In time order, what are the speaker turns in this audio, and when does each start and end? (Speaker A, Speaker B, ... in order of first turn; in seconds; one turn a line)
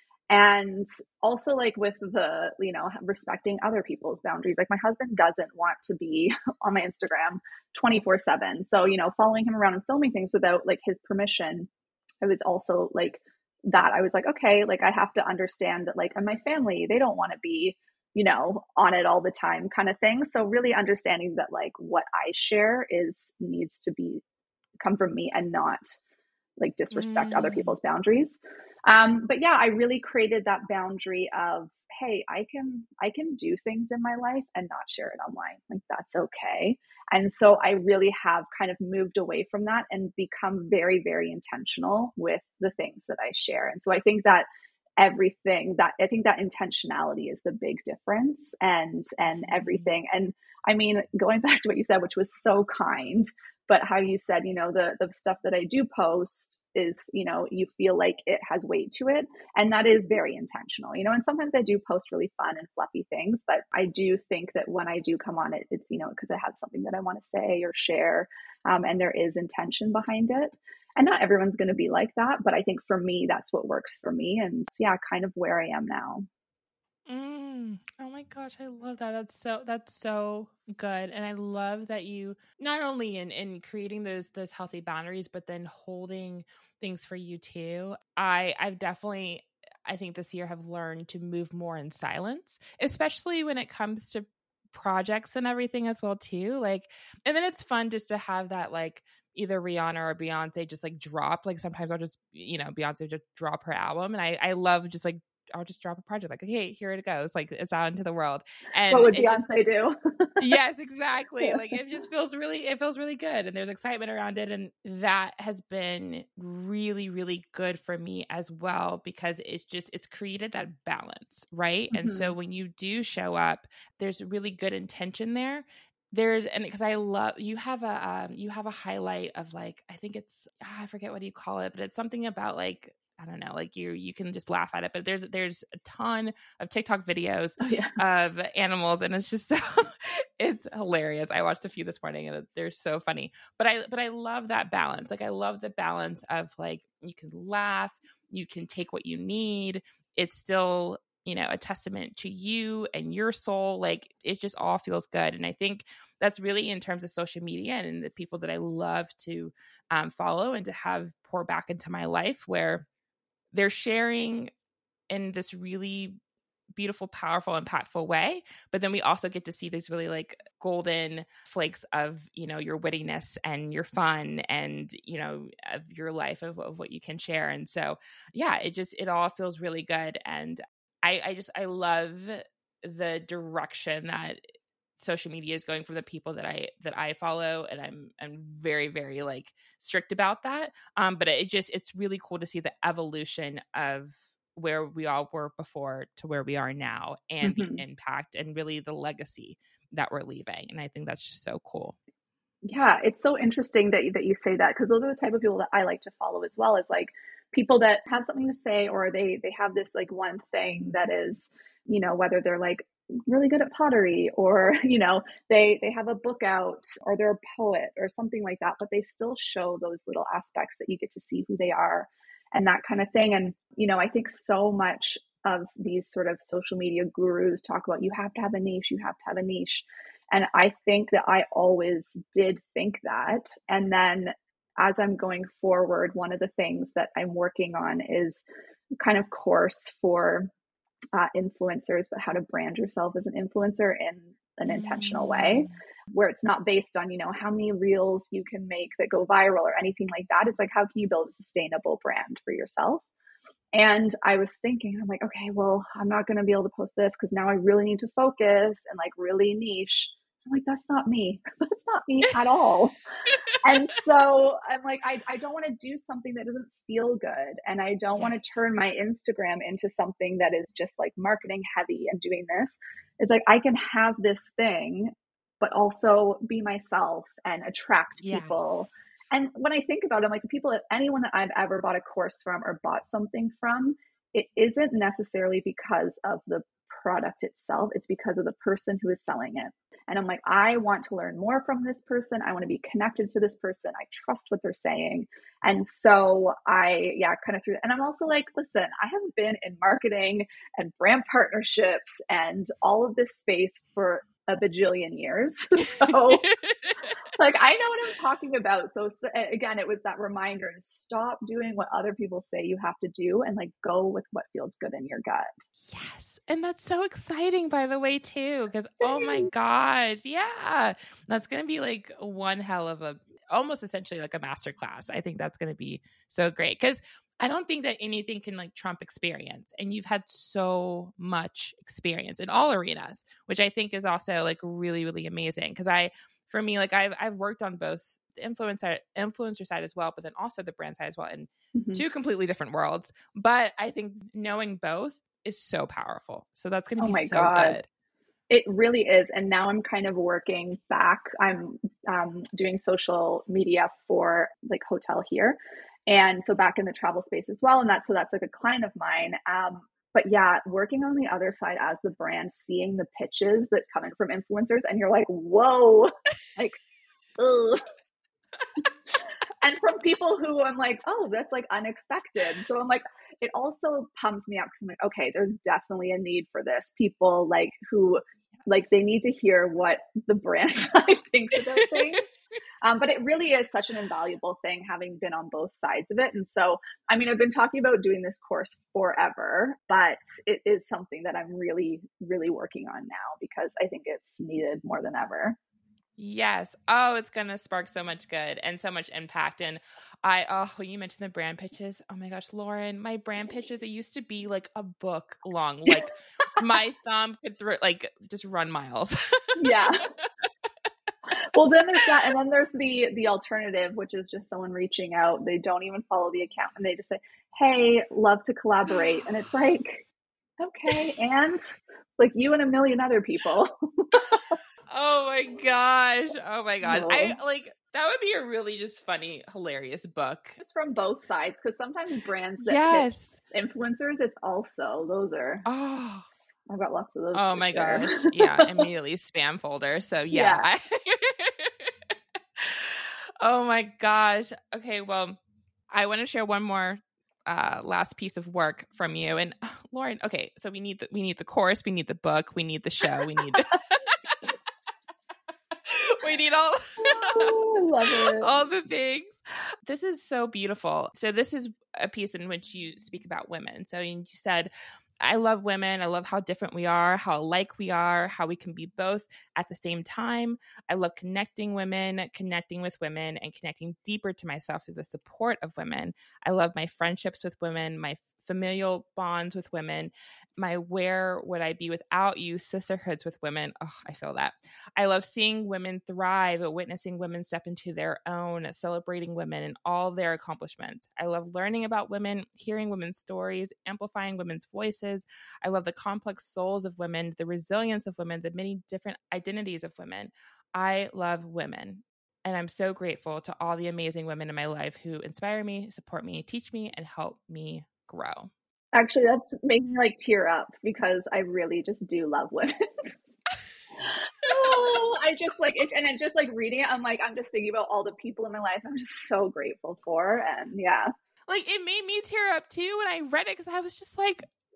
Speaker A: 0.3-11.7
Speaker A: 12.2-24.2
Speaker A: 24.8-26.0
Speaker A: 26.6-44.5
Speaker B: 26.9-27.7
Speaker A: 45.0-76.3
Speaker B: 49.4-49.8
Speaker B: 77.1-109.6
Speaker A: 108.9-110.4
Speaker B: 110.4-162.8
Speaker A: 121.9-122.3
Speaker A: 137.6-138.0
Speaker B: 163.5-164.5
Speaker B: 165.1-166.2
Speaker B: 166.7-184.4
Speaker B: 185.0-202.0
Speaker A: 197.4-197.8
Speaker A: 202.7-238.4
Speaker A: 239.0-240.5
Speaker A: 241.1-253.0
Speaker B: 244.7-245.7
Speaker A: 253.7-262.9
Speaker A: 263.6-306.4
Speaker B: 268.2-268.6
Speaker B: 278.2-278.9
Speaker B: 306.0-307.1
Speaker A: 307.3-315.5
Speaker B: 315.9-347.9
Speaker A: 319.0-319.5
Speaker A: 341.7-342.0
Speaker A: 347.0-347.8
Speaker A: 348.5-366.8
Speaker A: 367.4-367.8
Speaker A: 369.1-382.2
Speaker B: 381.6-382.2
Speaker A: 382.8-395.6
Speaker B: 396.2-410.3
Speaker A: 409.6-410.1
Speaker A: 411.3-420.0
Speaker A: 420.6-424.6
Speaker B: 424.9-430.6
Speaker A: 426.8-427.4
Speaker A: 430.6-435.6
Speaker B: 432.6-433.4
Speaker B: 435.6-436.3
Speaker A: 436.7-438.8
Speaker B: 437.3-441.9
Speaker A: 440.3-440.7
Speaker B: 442.6-445.4
Speaker B: 445.9-454.2
Speaker B: 455.8-464.7
Speaker A: 457.0-458.5
Speaker B: 465.2-508.5
Speaker A: 508.9-513.2
Speaker A: 514.0-521.1
Speaker B: 521.5-524.5